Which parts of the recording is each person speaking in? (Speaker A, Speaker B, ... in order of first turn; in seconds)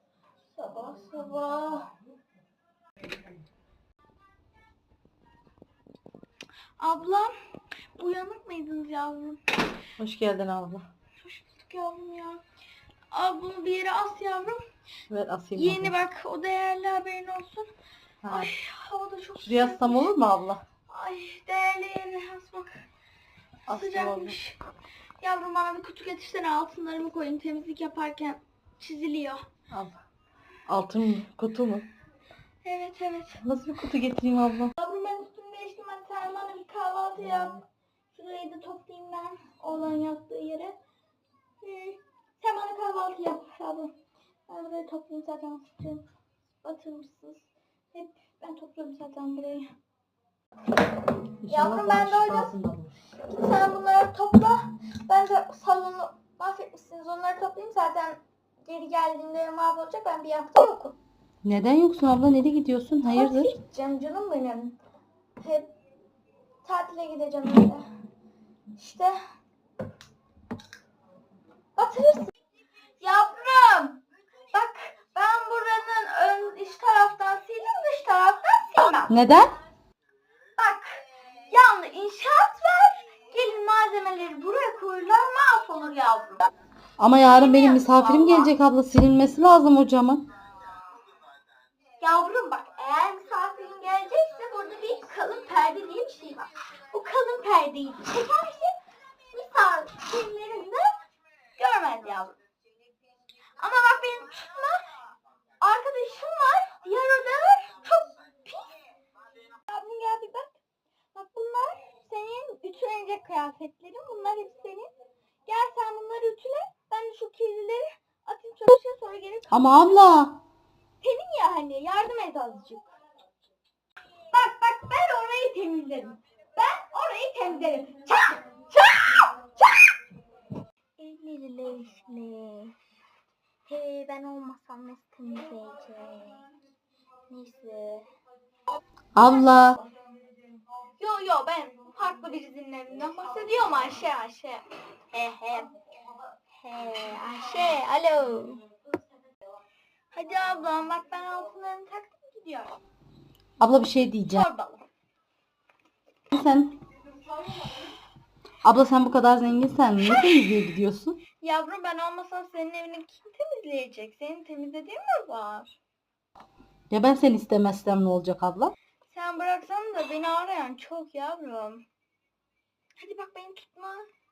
Speaker A: 0.5-1.9, 6.8-7.3, 8.0-9.5, 11.2-12.4, 13.1-14.6, 15.6-17.7, 18.3-20.1, 20.9-22.8, 23.7-24.6, 25.2-29.4, 32.6-33.4, 34.8-37.6, 38.1-40.7, 41.6-43.9, 44.5-46.0, 46.6-49.6, 51.5-52.5, 53.2-61.0, 63.1-64.8, 65.4-65.7, 66.6-67.8, 68.8-69.2, 71.8-72.3, 73.0-74.0, 74.5-79.1, 80.6-86.5, 87.2-88.5, 92.0-98.8, 99.3-100.9, 101.6-102.4, 103.6-104.8, 105.6-108.7, 109.6-110.6, 111.1-114.9, 115.5-120.0, 121.0-123.0, 124.3-129.9, 131.0-132.7, 133.6-136.4, 137.3-138.1, 141.0-145.7, 146.6-148.6, 150.1-152.8, 154.3-154.8, 161.4-165.7, 169.1-171.8, 173.0-174.1
Speaker B: 10.0-10.9, 15.1-16.0, 18.2-18.5, 19.4-20.6, 23.7-24.4, 29.7-30.0, 30.7-31.9, 33.4-34.7, 51.4-52.9, 61.4-63.5, 79.1-79.5, 87.0-90.2, 119.5-120.3, 139.2-139.8, 153.6-154.4, 156.3-156.7, 158.6-161.2, 166.9-168.7